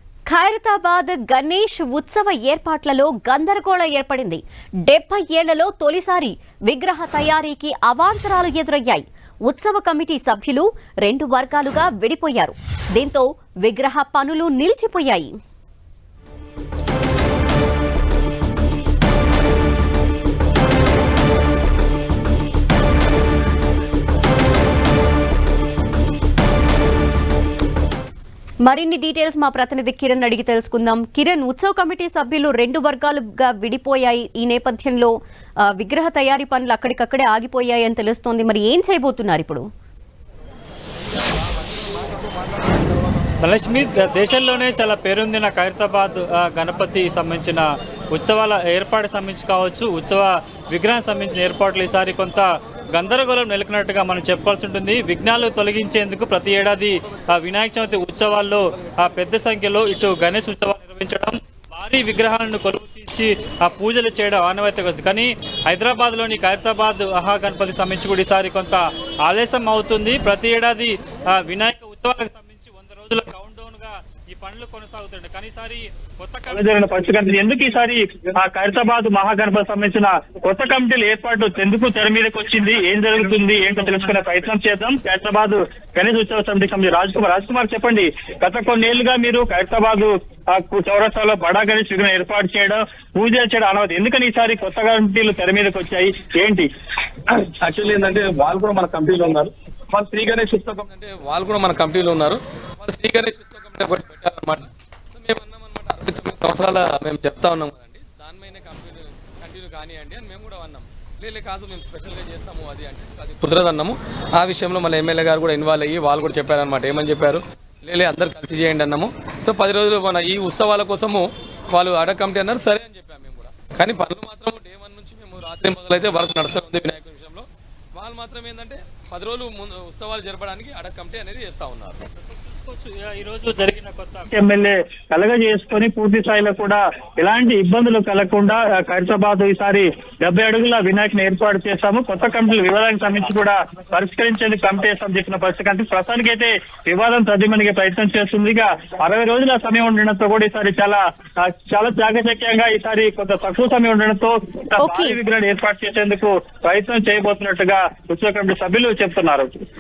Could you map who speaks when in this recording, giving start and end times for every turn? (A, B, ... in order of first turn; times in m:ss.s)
0:00.3-0:15.3 A
0:28.6-0:39.7 A
0:43.4-1:16.7 B
1:16.5-1:36.7 C
1:37.3-2:12.0 D
2:12.2-2:14.2 B
2:14.3-2:39.5 C
2:34.8-2:35.2 A